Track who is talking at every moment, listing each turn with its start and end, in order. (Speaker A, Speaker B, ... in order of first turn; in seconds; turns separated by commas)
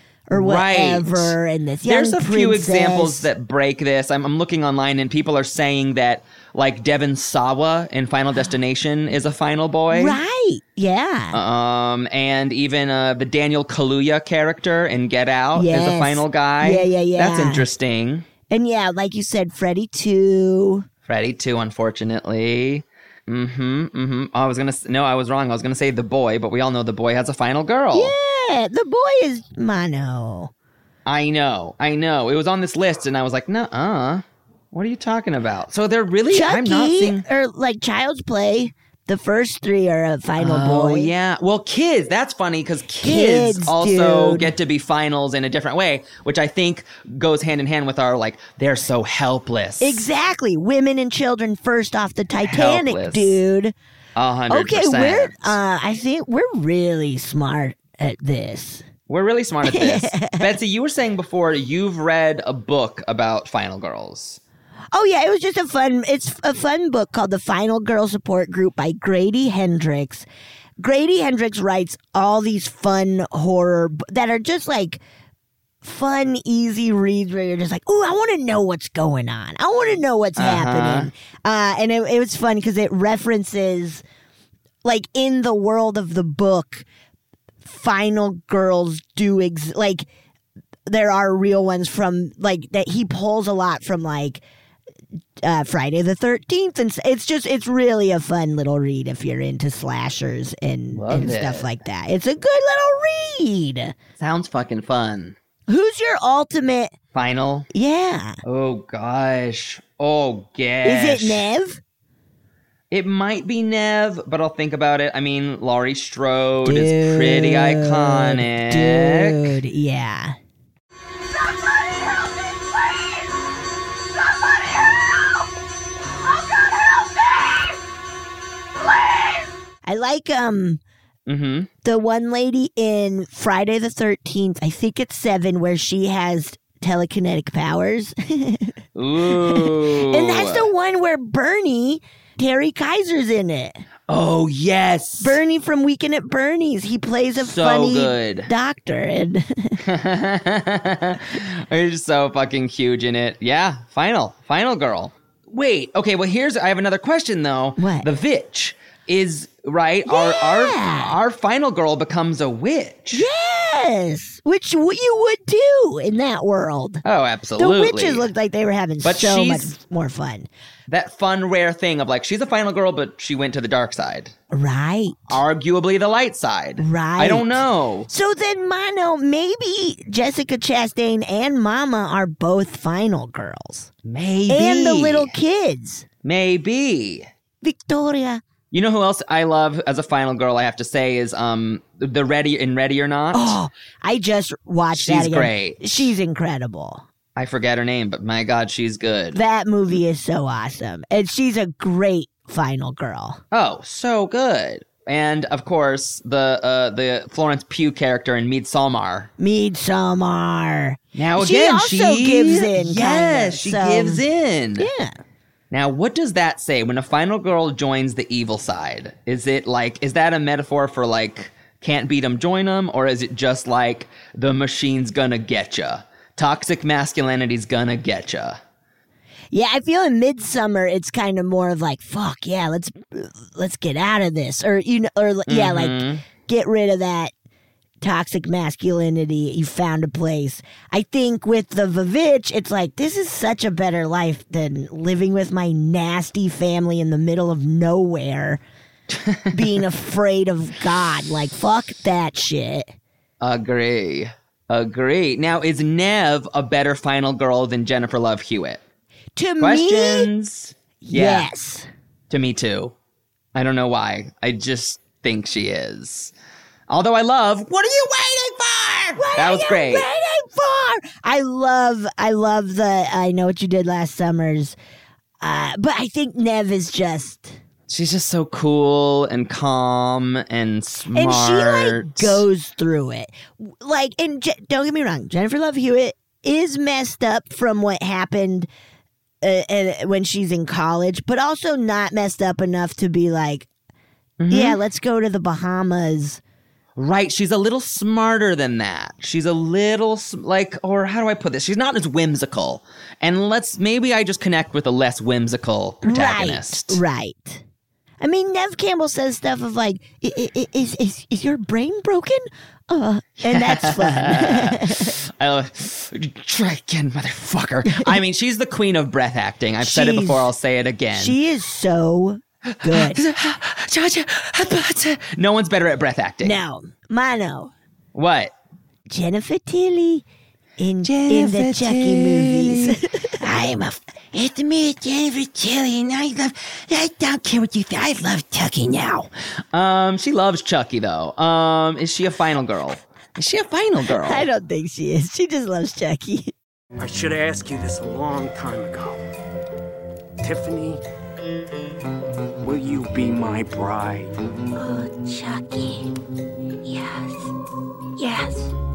Speaker A: 0.3-3.3, Speaker B: 0.3-1.3, Speaker B: 1.9-10.2, Speaker A: 9.9-11.4, Speaker B: 11.3-18.3, Speaker A: 15.5-17.7, Speaker A: 18.5-20.9, Speaker B: 21.1-28.1, Speaker A: 27.9-30.5, Speaker B: 31.1-37.2, Speaker A: 36.3-41.1, Speaker B: 40.4-50.0, Speaker A: 43.0-44.5, Speaker A: 49.8-53.7, Speaker B: 52.4-53.4, Speaker B: 54.1-55.6, Speaker A: 54.5-58.8, Speaker B: 59.1-64.4, Speaker A: 59.6-60.5, Speaker A: 64.9-70.3, Speaker A: 70.8-75.0, Speaker A: 75.8-84.0, Speaker B: 80.4-81.1, Speaker A: 84.8-86.8, Speaker A: 87.6-90.1, Speaker A: 90.9-94.4, Speaker A: 95.4-103.9, Speaker B: 100.9-101.7, Speaker B: 104.2-105.4, Speaker A: 105.7-106.9, Speaker B: 107.1-107.7, Speaker A: 107.7-108.4, Speaker B: 108.4-111.5, Speaker A: 110.8-111.8, Speaker B: 112.9-119.5, Speaker A: 116.6-120.3, Speaker A: 129.8-130.8, Speaker B: 131.2-131.7, Speaker A: 131.8-138.7, Speaker B: 138.9-140.7, Speaker A: 139.3-143.8, Speaker B: 144.1-145.4, Speaker A: 145.2-149.8, Speaker B: 147.4-148.5, Speaker B: 149.8-163.2, Speaker A: 157.8-158.1, Speaker A: 160.1-161.1, Speaker A: 163.1-167.0, Speaker B: 167.0-168.3, Speaker A: 167.6-170.5, Speaker B: 169.0-169.7, Speaker B: 170.9-174.3, Speaker A: 174.5-175.4, Speaker B: 175.3-178.1, Speaker A: 176.8-183.9, Speaker B: 184.0-185.3, Speaker A: 184.5-186.0, Speaker B: 186.2-187.3, Speaker A: 187.6-188.4, Speaker B: 188.7-193.6, Speaker A: 193.3-197.0, Speaker B: 194.9-196.1, Speaker B: 197.3-199.4, Speaker A: 199.3-203.4, Speaker B: 203.5-209.3, Speaker A: 209.4-214.2, Speaker B: 211.1-214.9, Speaker A: 214.8-215.1, Speaker B: 215.7-228.6, Speaker A: 229.5-237.3, Speaker B: 235.5-236.2, Speaker A: 238.0-248.6, Speaker B: 249.1-249.7, Speaker A: 249.5-252.9, Speaker B: 253.4-258.8, Speaker A: 259.4-260.3, Speaker B: 259.6-261.5, Speaker A: 261.0-261.9, Speaker B: 262.3-262.9, Speaker B: 263.5-266.3, Speaker B: 266.9-270.1, Speaker A: 269.1-274.8, Speaker A: 275.4-277.6, Speaker B: 277.9-282.4, Speaker A: 281.1-288.7, Speaker A: 289.4-293.7, Speaker B: 294.4-294.8, Speaker A: 294.5-296.4, Speaker B: 296.9-307.0, Speaker A: 306.0-307.6, Speaker A: 308.2-315.1, Speaker B: 313.4-321.4, Speaker A: 317.9-318.2, Speaker A: 319.8-320.5, Speaker A: 321.1-323.2, Speaker B: 322.8-326.6, Speaker A: 326.4-327.7, Speaker B: 328.1-328.5, Speaker A: 329.1-330.2, Speaker A: 330.8-334.0, Speaker B: 331.0-333.5, Speaker B: 334.3-344.5, Speaker A: 344.1-346.5, Speaker C: 347.0-349.2, Speaker C: 350.4-351.0, Speaker C: 352.6-354.4, Speaker A: 354.8-356.1, Speaker A: 356.8-357.5, Speaker A: 358.2-358.7